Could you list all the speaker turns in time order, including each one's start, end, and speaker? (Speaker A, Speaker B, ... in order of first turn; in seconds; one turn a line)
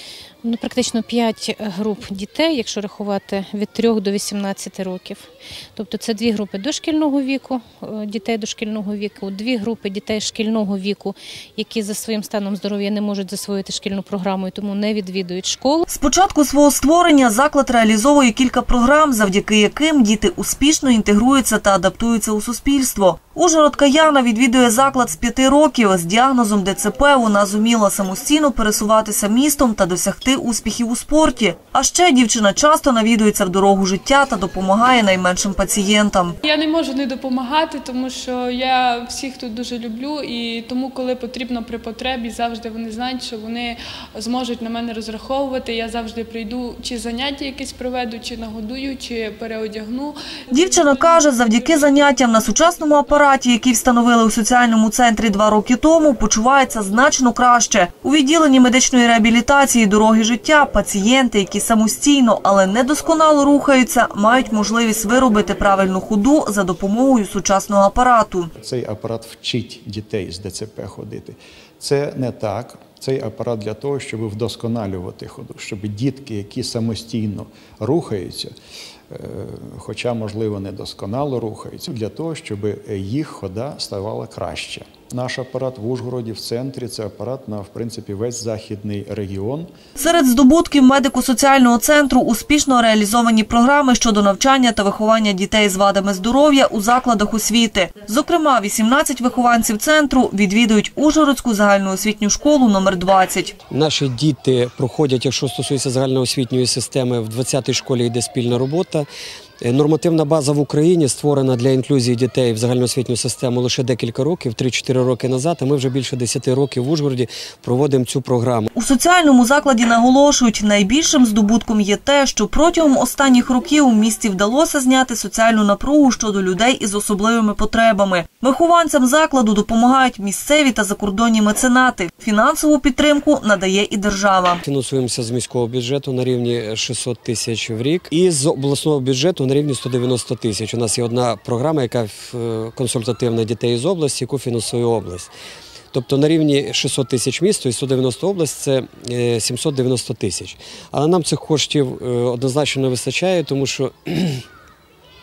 Speaker A: 0.4-15.8
Speaker B: 15.9-36.4
Speaker C: 36.4-52.1
Speaker B: 50.5-68.5
Speaker D: 68.6-78.5
Speaker D: 79.1-89.7
Speaker B: 90.0-103.5
Speaker E: 103.7-109.1
Speaker E: 109.6-118.7
Speaker B: 118.7-134.6
Speaker E: 134.6-145.3
Speaker E: 145.9-154.4